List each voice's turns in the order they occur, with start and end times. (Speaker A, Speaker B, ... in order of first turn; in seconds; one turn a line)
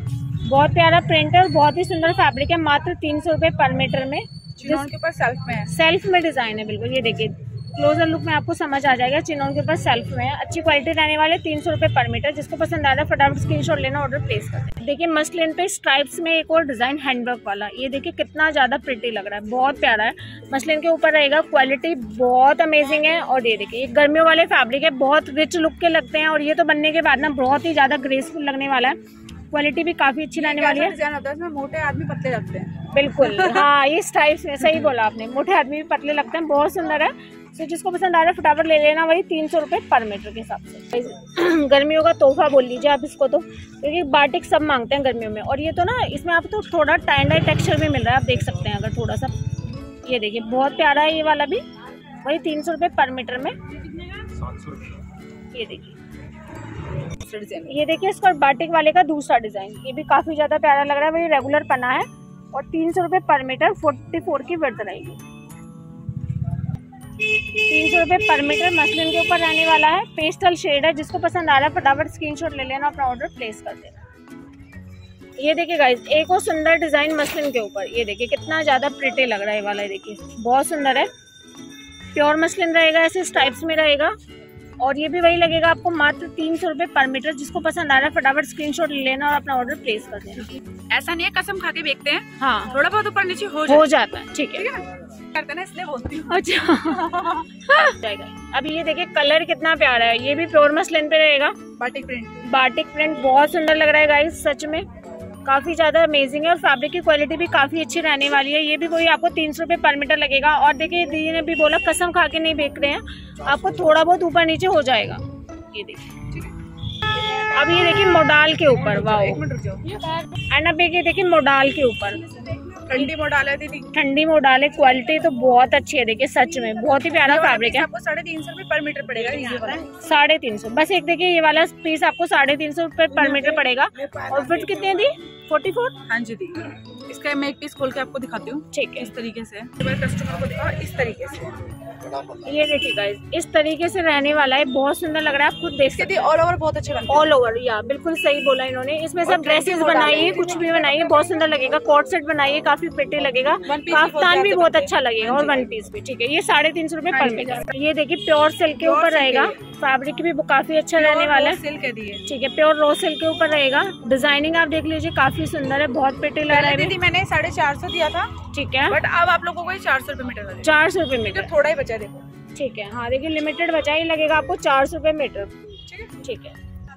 Speaker A: 0.4-4.9
Speaker B: 4.6-5.7
Speaker A: 5.7-29.0
Speaker A: 29.5-30.9
Speaker B: 30.3-33.7
Speaker A: 32.9-49.3
Speaker A: 50.0-51.6
Speaker A: 52.2-53.6
Speaker A: 55.5-55.9
Speaker B: 57.2-57.7
Speaker A: 57.7-65.2
Speaker A: 67.7-73.9
Speaker A: 75.4-81.1
Speaker A: 82.1-84.1
Speaker A: 84.8-90.5
Speaker B: 90.9-93.9
Speaker A: 92.4-92.7
Speaker A: 93.7-94.7
Speaker B: 94.5-97.9
Speaker A: 96.3-101.6
Speaker B: 101.8-102.4
Speaker A: 102.4-104.8
Speaker A: 105.5-116.0
Speaker A: 117.4-119.4
Speaker B: 118.7-120.0
Speaker A: 120.4-122.3
Speaker B: 122.5-123.9
Speaker A: 123.9-127.9
Speaker B: 127.2-129.9
Speaker A: 129.9-135.9
Speaker B: 133.1-133.7
Speaker B: 136.1-141.6
Speaker A: 138.7-139.1
Speaker A: 142.4-146.3
Speaker B: 145.9-147.3
Speaker A: 147.1-161.6
Speaker B: 149.2-150.9
Speaker B: 153.7-155.7
Speaker B: 157.1-157.7
Speaker B: 158.8-159.6
Speaker B: 161.0-162.2
Speaker A: 162.2-166.9
Speaker B: 166.5-168.3
Speaker A: 168.5-169.0
Speaker B: 168.9-172.2
Speaker A: 170.6-171.5
Speaker A: 172.5-175.5
Speaker B: 175.9-176.1
Speaker A: 176.2-176.6